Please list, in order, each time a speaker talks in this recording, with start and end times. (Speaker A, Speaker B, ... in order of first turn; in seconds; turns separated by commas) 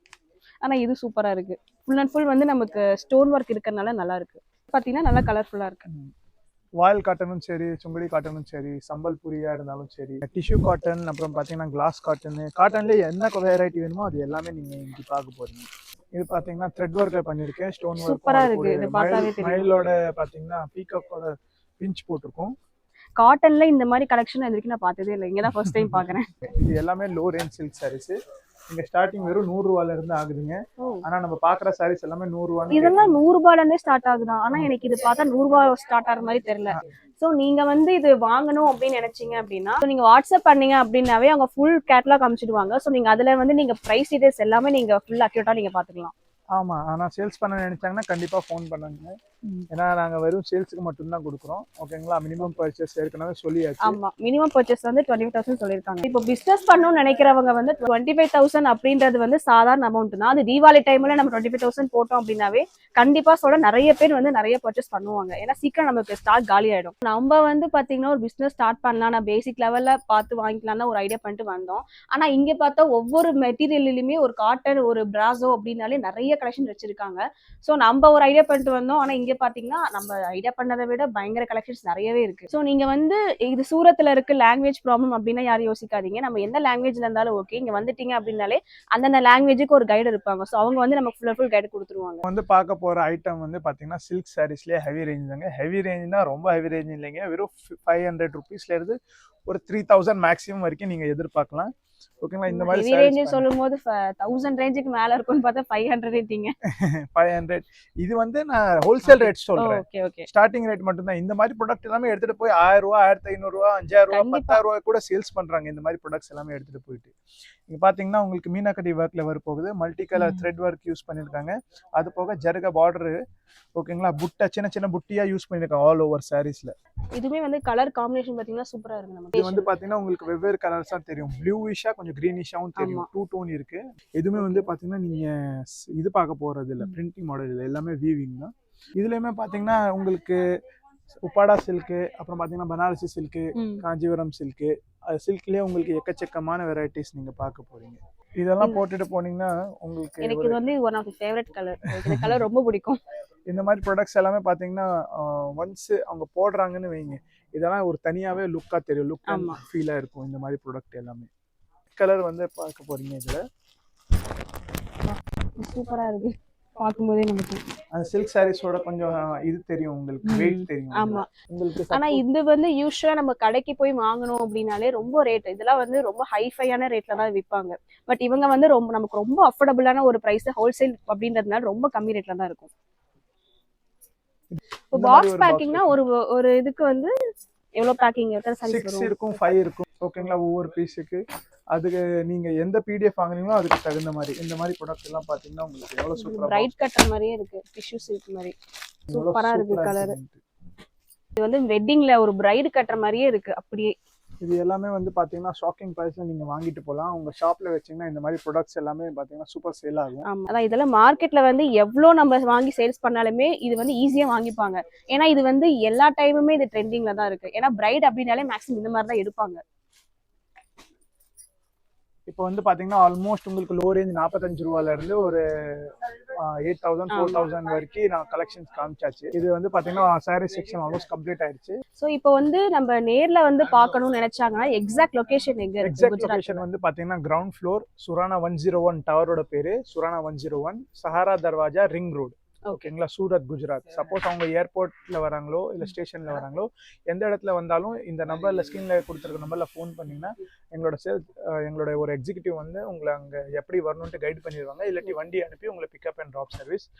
Speaker A: 0.6-5.9, Speaker B: 6.8-22.5, Speaker A: 18.0-19.7, Speaker A: 23.2-26.3, Speaker B: 25.6-28.2, Speaker B: 28.7-33.2, Speaker A: 30.8-31.0, Speaker A: 32.7-46.1, Speaker B: 46.5-49.1, Speaker B: 49.7-54.0, Speaker A: 53.8-92.2, Speaker B: 92.2-99.0, Speaker B: 99.5-103.4, Speaker A: 102.5-106.5, Speaker B: 106.6-117.1, Speaker A: 109.0-110.3, Speaker A: 114.1-114.6, Speaker B: 117.7-123.2, Speaker A: 120.2-120.4, Speaker B: 123.8-126.7, Speaker A: 127.1-129.7, Speaker B: 129.3-140.4, Speaker A: 132.8-133.1, Speaker A: 134.4-134.7, Speaker B: 141.2-150.6, Speaker A: 143.5-143.8, Speaker A: 150.2-153.0, Speaker B: 152.0-152.4, Speaker B: 153.5-161.3, Speaker A: 159.3-159.6, Speaker B: 161.9-163.4, Speaker A: 165.1-167.6, Speaker B: 167.9-172.2, Speaker A: 170.2-171.3, Speaker A: 171.9-182.7, Speaker B: 184.5-186.0, Speaker A: 184.9-187.1, Speaker A: 187.8-189.1, Speaker B: 188.6-196.8, Speaker A: 196.2-198.5, Speaker B: 199.1-200.4, Speaker A: 199.1-200.2, Speaker A: 201.4-203.9, Speaker B: 204.4-210.3, Speaker A: 210.2-219.6, Speaker B: 222.3-231.8, Speaker A: 227.1-227.4, Speaker A: 232.0-236.6, Speaker B: 235.8-256.9